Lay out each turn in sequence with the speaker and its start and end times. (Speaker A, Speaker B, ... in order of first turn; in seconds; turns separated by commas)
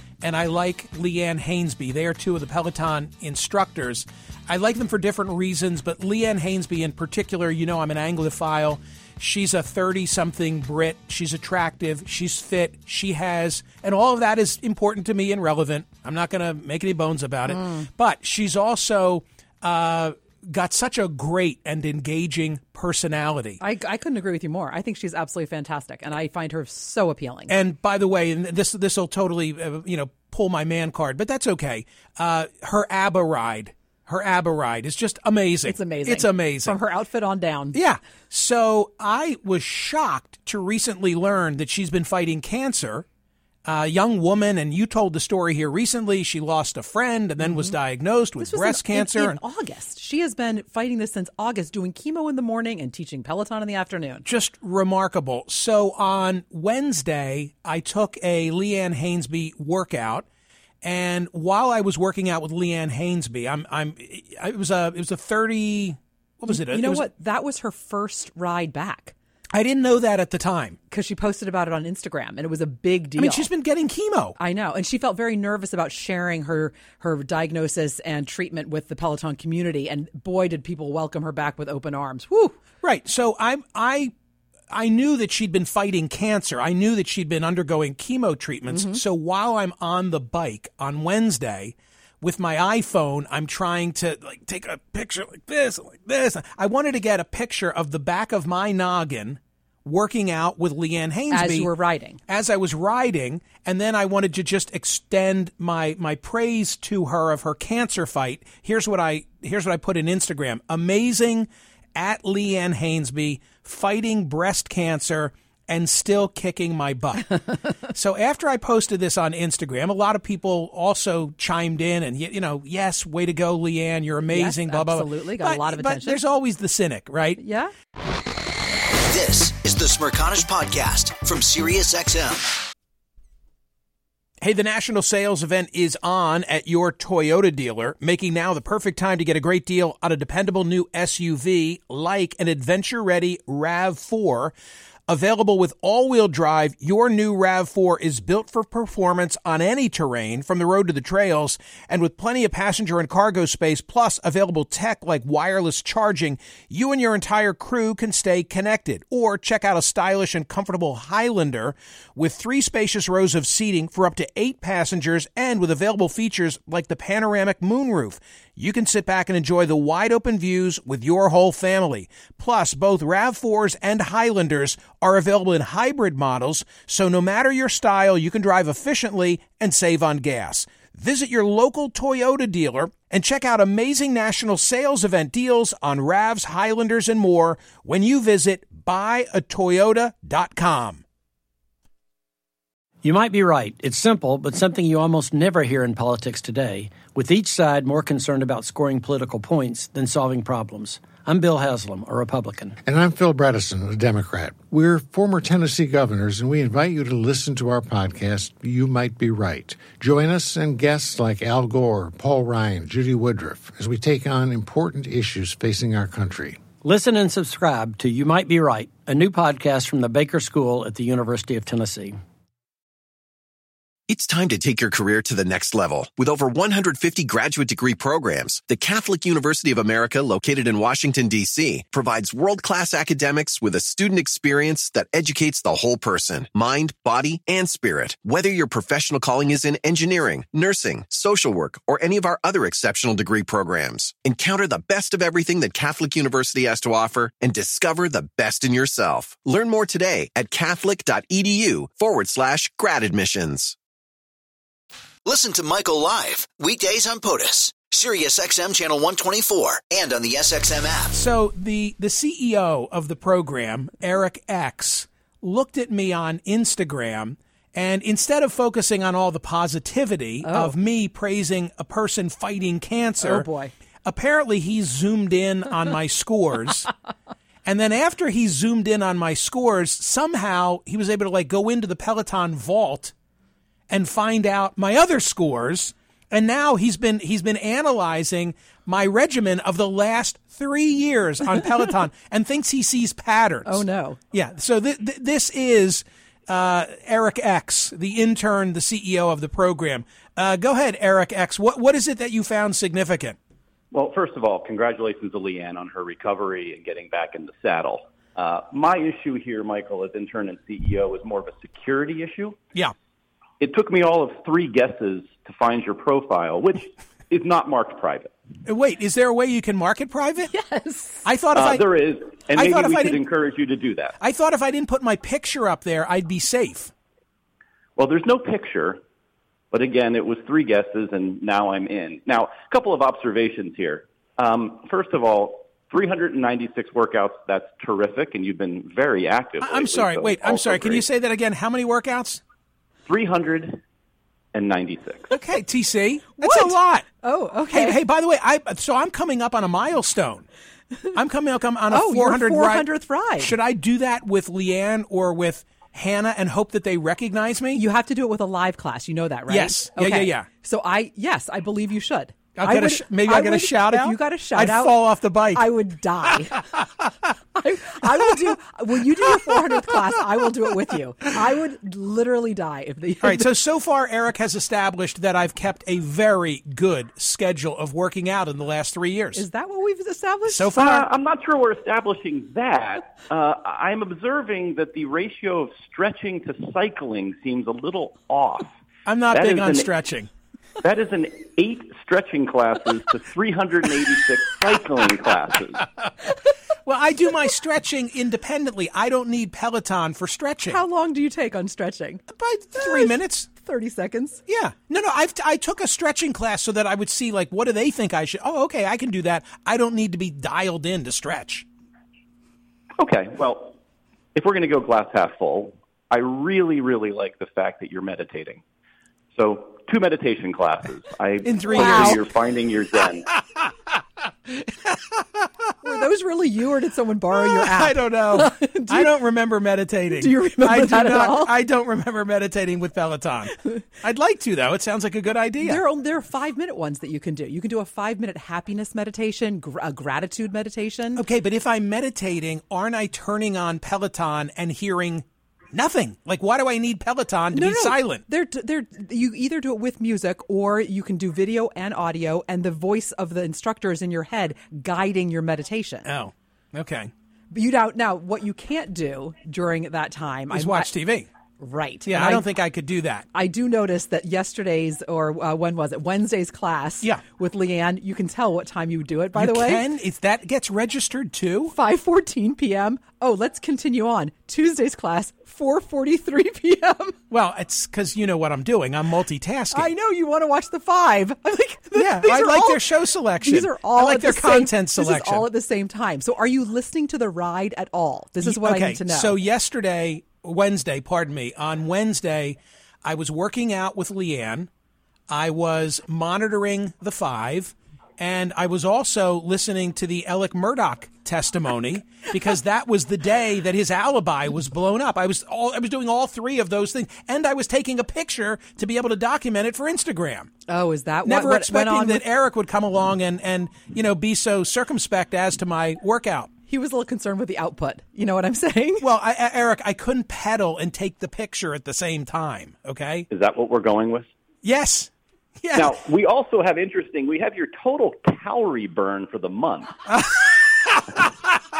Speaker A: 0.2-23.6, Speaker B: 17.5-17.9, Speaker B: 23.6-27.5, Speaker A: 27.5-36.7, Speaker B: 35.6-37.8, Speaker A: 37.7-43.0, Speaker A: 43.6-49.4, Speaker B: 47.4-47.7, Speaker B: 48.4-54.2, Speaker A: 54.2-60.2, Speaker A: 60.8-67.1, Speaker B: 66.5-69.1, Speaker A: 69.5-70.8, Speaker B: 70.9-73.5, Speaker A: 73.2-74.3, Speaker B: 74.4-82.6, Speaker A: 82.8-84.1, Speaker A: 84.7-101.7, Speaker B: 88.7-89.0, Speaker B: 101.3-102.2, Speaker A: 102.3-117.4, Speaker A: 117.9-127.4, Speaker B: 124.3-126.2, Speaker B: 127.4-127.7, Speaker C: 129.1-132.5, Speaker A: 134.4-144.5, Speaker A: 145.1-191.0, Speaker D: 193.0-202.8, Speaker E: 202.8-216.6, Speaker D: 216.8-222.2, Speaker F: 224.1-253.7, Speaker C: 255.2-261.2, Speaker A: 261.1-273.5, Speaker B: 270.4-270.8, Speaker B: 273.2-273.7, Speaker A: 274.0-276.9, Speaker A: 277.6-283.1, Speaker A: 283.9-303.4, Speaker B: 293.6-294.2, Speaker G: 303.9-312.6, Speaker G: 313.6-318.3, Speaker A: 318.6-320.5, Speaker B: 320.4-321.3, Speaker A: 321.2-321.8, Speaker G: 321.5-324.1, Speaker A: 322.5-323.2, Speaker A: 324.2-326.9, Speaker G: 328.0-329.0, Speaker G: 329.7-341.0, Speaker A: 339.6-342.4, Speaker G: 343.1-343.8, Speaker G: 344.5-345.3, Speaker A: 345.3-347.0, Speaker B: 346.4-348.0, Speaker A: 347.7-350.5, Speaker A: 351.1-352.9, Speaker B: 351.9-353.5, Speaker A: 353.4-357.8, Speaker B: 357.7-366.6, Speaker A: 359.5-360.5, Speaker A: 362.6-365.7, Speaker B: 367.5-373.5, Speaker A: 373.2-379.4, Speaker B: 379.3-381.0, Speaker A: 380.5-381.0, Speaker G: 380.7-388.7, Speaker A: 389.1-390.3, Speaker G: 389.3-389.9, Speaker G: 390.8-395.8, Speaker A: 396.9-400.8, Speaker B: 400.6-404.4, Speaker A: 402.4-403.5, Speaker A: 404.5-411.6, Speaker G: 413.0-413.8, Speaker G: 414.3-418.6, Speaker G: 419.3-423.3, Speaker A: 421.4-422.2, Speaker B: 421.7-422.2, Speaker A: 423.3-423.9, Speaker A: 424.5-425.4, Speaker B: 425.8-429.1, Speaker A: 427.3-435.8, Speaker B: 430.1-431.5, Speaker B: 435.6-441.2, Speaker A: 441.1-448.2, Speaker B: 447.5-456.1, Speaker A: 456.1-457.1, Speaker B: 457.5-460.9, Speaker A: 460.5-461.3, Speaker B: 461.6-462.5, Speaker A: 462.1-463.2, Speaker B: 463.3-469.9, Speaker A: 469.4-471.7, Speaker B: 471.7-477.1, Speaker A: 477.3-479.9, Speaker B: 479.7-489.4, Speaker A: 481.9-485.4, Speaker A: 488.4-494.7, Speaker A: 495.3-510.5, Speaker B: 510.7-512.2, Speaker A: 511.2-516.5, Speaker B: 516.7-519.0, Speaker A: 519.0-523.2, Speaker G: 523.3-524.3, Speaker A: 524.6-525.1, Speaker A: 525.6-525.9, Speaker G: 525.7-529.9, Speaker A: 530.1-531.3